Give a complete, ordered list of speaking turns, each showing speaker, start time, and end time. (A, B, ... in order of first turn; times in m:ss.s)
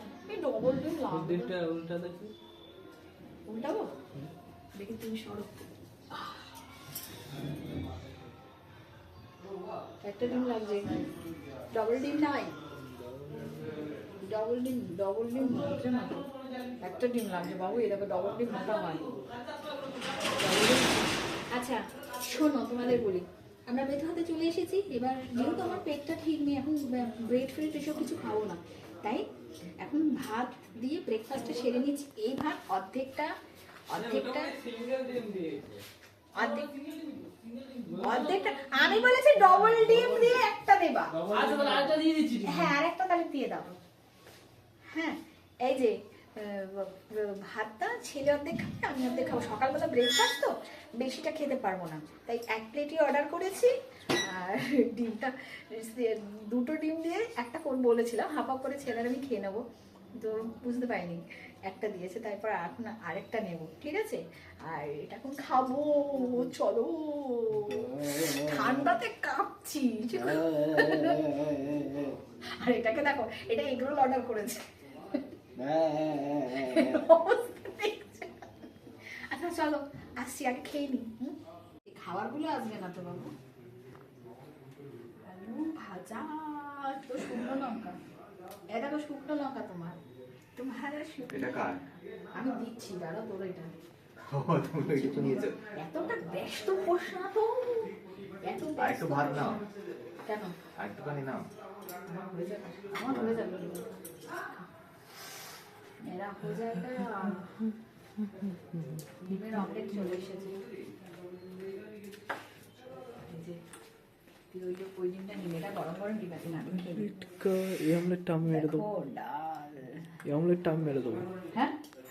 0:00.3-0:01.5 A
0:01.1-0:02.3 B
0:03.5-0:03.9 A
0:04.8-0:05.5 A
0:06.1-0:06.4 A
0:10.0-0:11.0 A
0:11.7-0:12.6 A
0:14.2-0:16.2 A
0:16.8-0:19.1 A
0:20.4-0:29.2 A
0:29.8-0:33.3 A
0:33.9-0:34.6 A
0:35.1-0:35.6 B
0:36.4-0:36.7 A
0:37.9-0:43.7 A
0:42.0-0:42.3 B
0:44.9-0:59.6 A
1:00.2-1:11.3 A
1:11.4-1:11.9 B
1:12.6-1:15.2 A
1:15.6-1:16.7 B
1:16.5-1:18.5 A
1:19.3-1:23.3 A
1:25.2-1:28.0 A
1:28.7-1:30.0 A
1:30.6-1:31.7 A
1:31.3-1:31.8 C
1:32.4-1:33.7 A
1:34.3-1:35.5 C
1:34.8-1:39.6 A
1:38.8-1:39.6 C
1:40.2-1:40.6 A
1:40.8-1:41.4 C
1:42.0-1:44.0 A
1:43.1-1:43.4 C
1:46.0-1:47.5 A
1:48.4-1:48.9 B
1:49.2-1:50.6 A
1:53.2-1:53.6 A
1:54.5-1:57.1 A
1:56.7-1:58.8 B
1:58.5-1:59.9 A
2:00.2-2:01.3 B